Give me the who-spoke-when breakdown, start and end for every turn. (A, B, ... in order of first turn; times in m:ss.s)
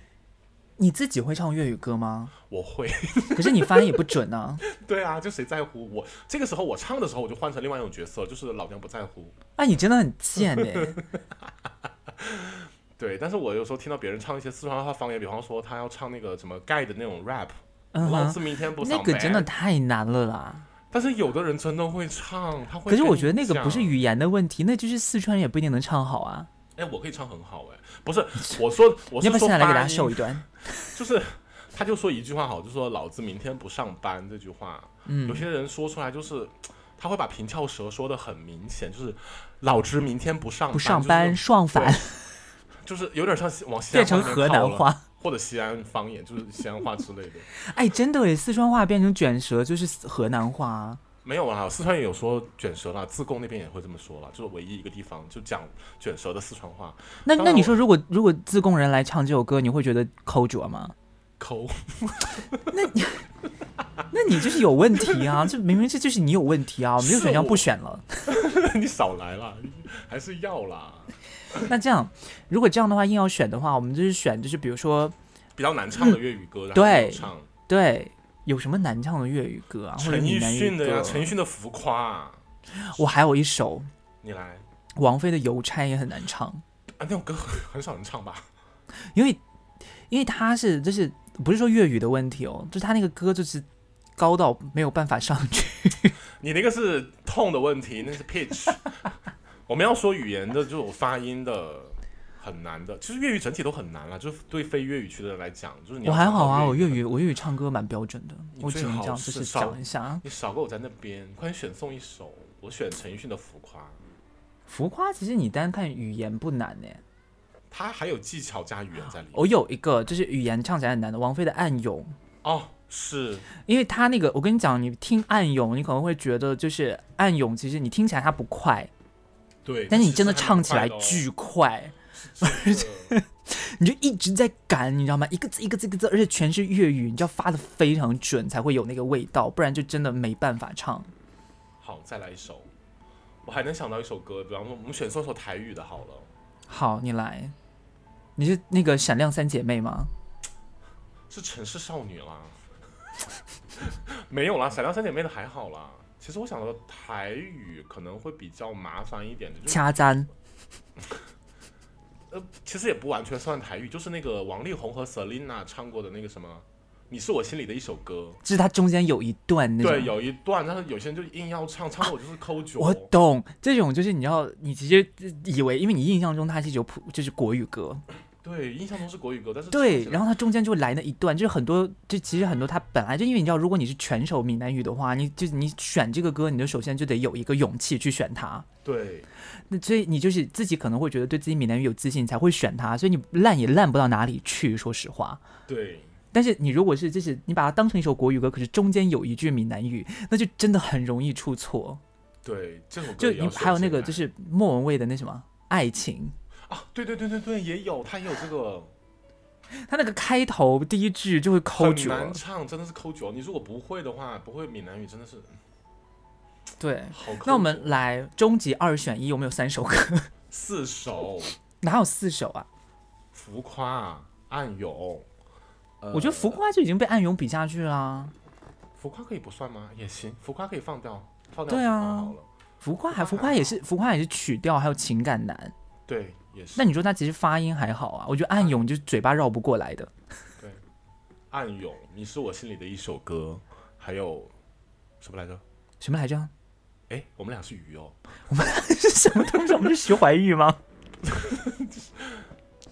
0:00.8-0:02.3 A
0:02.5-0:04.0 B
0:03.3-0:04.6 A
0:04.6-0:09.4 B
0:09.6-0:11.0 A
0:10.4-0:19.5 B
0:17.9-0:20.7 A
0:20.9-0:24.0 B
0:22.9-0:26.5 A
0:26.8-0:42.0 B
0:29.2-0:30.9 A
0:35.0-0:35.4 A
0:40.7-0:42.3 A
0:42.8-0:47.5 B
0:43.9-0:45.0 A
0:47.6-0:51.0 A
0:51.2-0:57.8 B
0:57.2-1:00.9 A
1:01.4-1:02.7 B
1:02.7-1:03.2 A
1:04.1-1:08.2 A
1:05.0-1:05.3 B
1:07.0-1:07.7 B
1:08.3-1:11.6 B
1:11.6-1:15.1 A
1:15.6-1:17.5 B
1:16.7-1:21.3 A
1:20.0-1:22.4 B
1:22.8-1:23.9 A
1:24.2-1:24.6 B
1:25.0-1:26.6 A
1:27.0-1:28.5 B
1:29.1-1:29.4 A
1:30.1-1:33.6 A
1:34.2-1:36.2 A
1:36.4-1:39.1 B
1:39.7-1:47.0 B
1:46.0-1:50.2 A
1:48.5-1:54.0 B
1:54.7-1:57.0 A
1:57.7-1:59.5 B
1:59.3-2:02.1 A
2:02.4-2:03.5 B
2:03.6-2:08.9 A
2:09.6-2:11.2 B
2:09.9-2:21.1 A
2:12.1-2:13.1 B
2:21.8-2:22.7 B
2:23.4-2:26.3 B
2:26.7-2:27.5 A
2:28.4-2:30.1 A
2:31.3-2:32.7 B
2:33.7-2:39.8 B
2:39.7-2:40.3 A
2:42.3-2:48.4 B
2:48.4-2:50.1 A
2:49.8-2:53.1 B
2:52.8-2:58.0 A
2:58.4-3:00.3 B
2:59.7-3:08.6 A
3:08.8-3:09.3 B
3:09.7-3:15.4 A
3:15.7-3:16.1 B
3:16.3-3:22.0 A
3:22.4-3:24.2 B
3:23.2-3:26.3 A
3:26.7-3:28.9 B
3:29.7-3:32.4 A
3:31.7-3:35.6 B
3:36.8-3:40.3 A
3:37.1-3:38.0 B
3:40.5-3:41.6 B
3:41.8-3:42.7 A
3:43.3-3:45.2 B
3:46.0-3:46.6 B
3:46.1-3:48.3 A
3:49.0-3:52.5 B
3:51.7-3:55.7 A
3:53.1-3:53.8 B
3:56.1-3:56.9 B
3:56.8-4:00.1 A
4:01.5-4:04.5 B
4:05.2-4:05.6 B
4:06.0-4:06.5 A
4:07.1-4:08.2 B
4:08.5-4:10.8 A
4:11.2-4:12.4 B